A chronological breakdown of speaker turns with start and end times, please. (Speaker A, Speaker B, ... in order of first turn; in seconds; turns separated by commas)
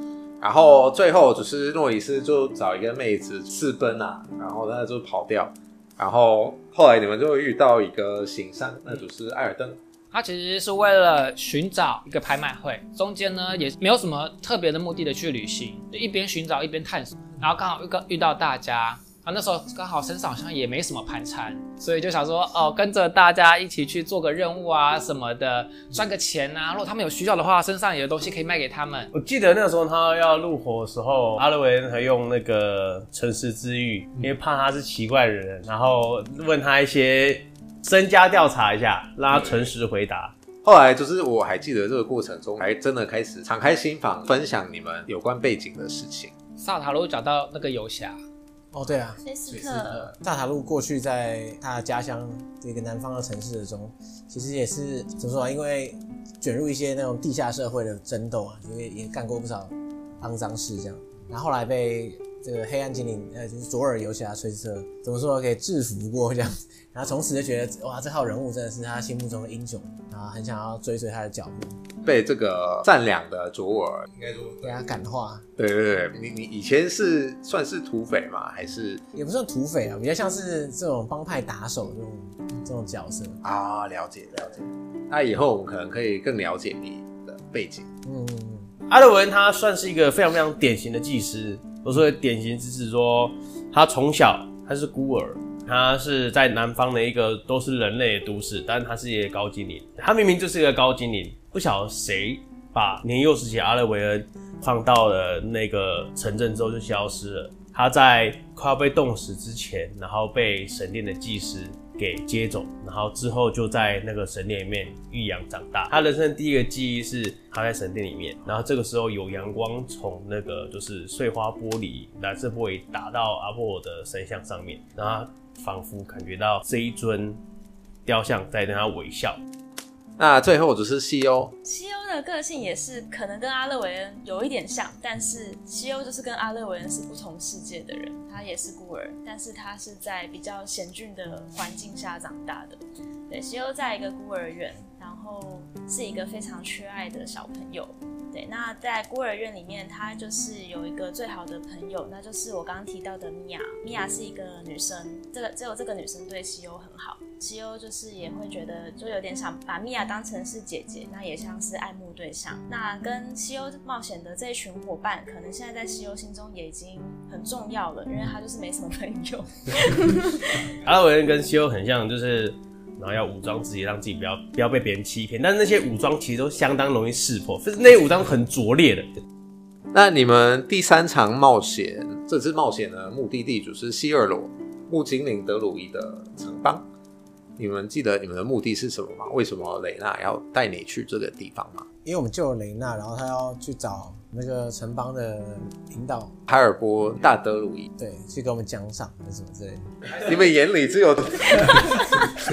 Speaker A: 0.4-9.8, Speaker B: 10.1-29.1, Speaker C: 29.1-40.3, Speaker A: 39.3-39.6, Speaker A: 40.6-46.3, Speaker B: 46.6-48.2, Speaker D: 48.7-49.2, Speaker E: 49.2-50.1, Speaker D: 49.9-71.8, Speaker A: 72.0-74.6, Speaker D: 74.6-75.5, Speaker A: 75.6-79.0, Speaker D: 79.1-83.4, Speaker A: 83.4-87.9, Speaker D: 88.0-88.7, Speaker C: 88.9-127.4, Speaker C: 128.1-129.4, Speaker A: 130.2-131.6, Speaker E: 131.6-170.7, Speaker C: 170.8-179.1, Speaker A: 179.9-186.8, Speaker A: 187.6-191.9, Speaker D: 192.0-196.3, Speaker A: 196.5-197.9, Speaker D: 198.0-199.9, Speaker A: 200.2-202.3